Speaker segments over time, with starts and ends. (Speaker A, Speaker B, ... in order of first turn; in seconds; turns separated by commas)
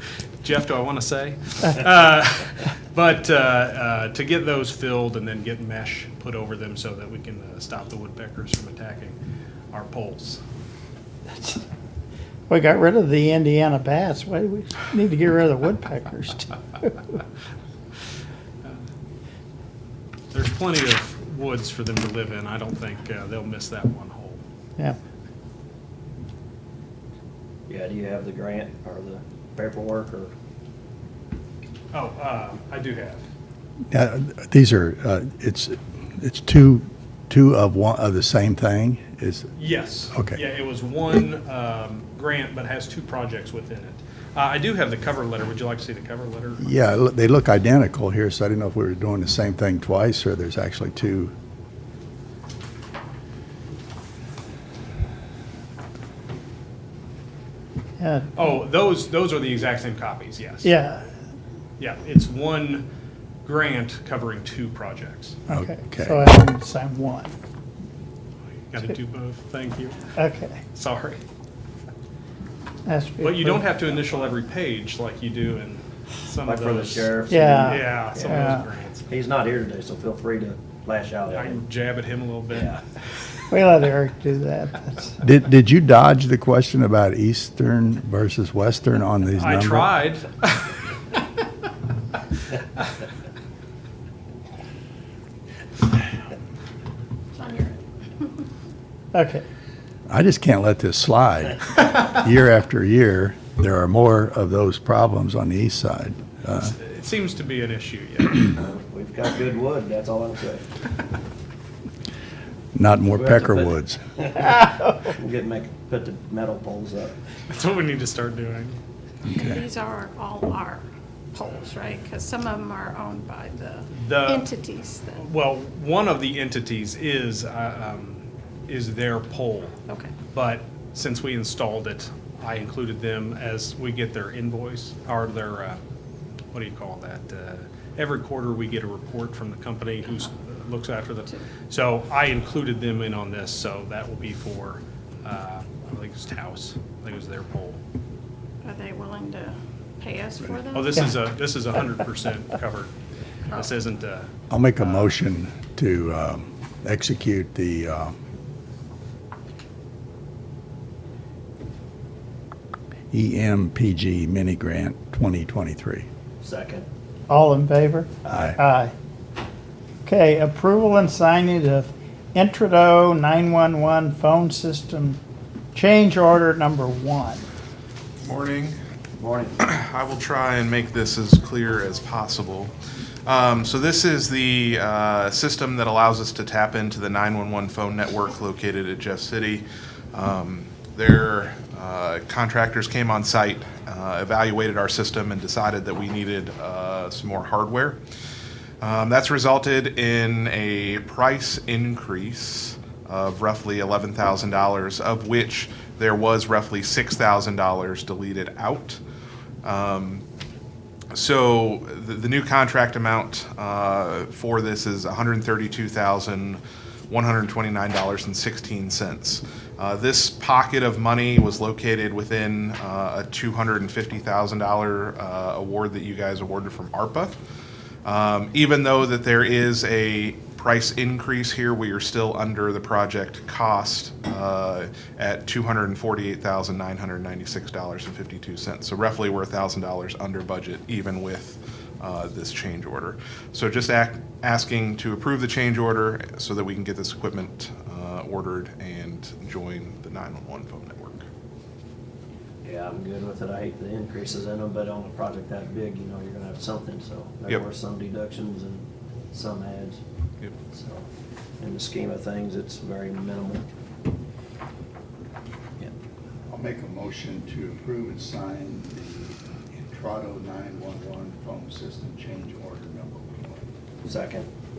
Speaker A: 0.4-9.2, Speaker A: 9.7-10.4, Speaker B: 11.3-11.6, Speaker B: 12.5-17.0, Speaker A: 20.3-24.4, Speaker C: 27.7-30.3, Speaker A: 31.9-33.2, Speaker D: 33.9-39.5, Speaker A: 39.5-46.7, Speaker D: 40.1-40.4, Speaker D: 46.6-51.3, Speaker B: 58.0-58.3, Speaker A: 58.3-60.7, Speaker B: 60.6-61.1, Speaker A: 61.8-62.9, Speaker A: 63.4-65.4, Speaker B: 65.5-67.3, Speaker D: 65.5-66.2, Speaker A: 68.7-70.0, Speaker B: 70.2-70.6, Speaker A: 70.7-71.2, Speaker B: 72.8-73.7, Speaker A: 73.2-79.0, Speaker C: 76.4-78.5, Speaker B: 77.3-78.6, Speaker C: 79.1-81.6, Speaker A: 81.3-82.8, Speaker C: 82.5-82.8, Speaker B: 83.5-85.2, Speaker D: 85.2-89.9, Speaker A: 89.4-90.7, Speaker E: 97.3-98.3, Speaker B: 99.1-99.4, Speaker D: 100.1-106.7, Speaker A: 106.7-108.5, Speaker C: 108.5-110.6, Speaker D: 112.7-114.0, Speaker C: 113.1-117.2, Speaker B: 114.4-115.1, Speaker A: 117.5-118.8, Speaker E: 119.3-125.2, Speaker A: 123.9-124.5, Speaker A: 125.2-129.8, Speaker E: 129.9-130.1, Speaker A: 130.3-135.8, Speaker A: 136.5-147.8, Speaker E: 148.6-151.1, Speaker A: 150.7-152.9, Speaker A: 153.5-155.1, Speaker D: 154.5-158.1, Speaker D: 163.1-166.1, Speaker C: 166.4-166.9, Speaker B: 167.3-168.9, Speaker D: 168.3-168.6, Speaker B: 170.0-175.2, Speaker B: 175.7-177.4, Speaker F: 178.2-178.8, Speaker C: 179.2-179.6, Speaker F: 179.6-182.7, Speaker F: 183.2-198.0, Speaker F: 198.8-209.0, Speaker F: 209.6-210.2, Speaker F: 211.1-227.4, Speaker F: 228.0-251.2, Speaker C: 252.6-260.0, Speaker C: 260.7-261.1, Speaker C: 261.6-263.6, Speaker D: 266.5-273.7, Speaker C: 274.0-274.5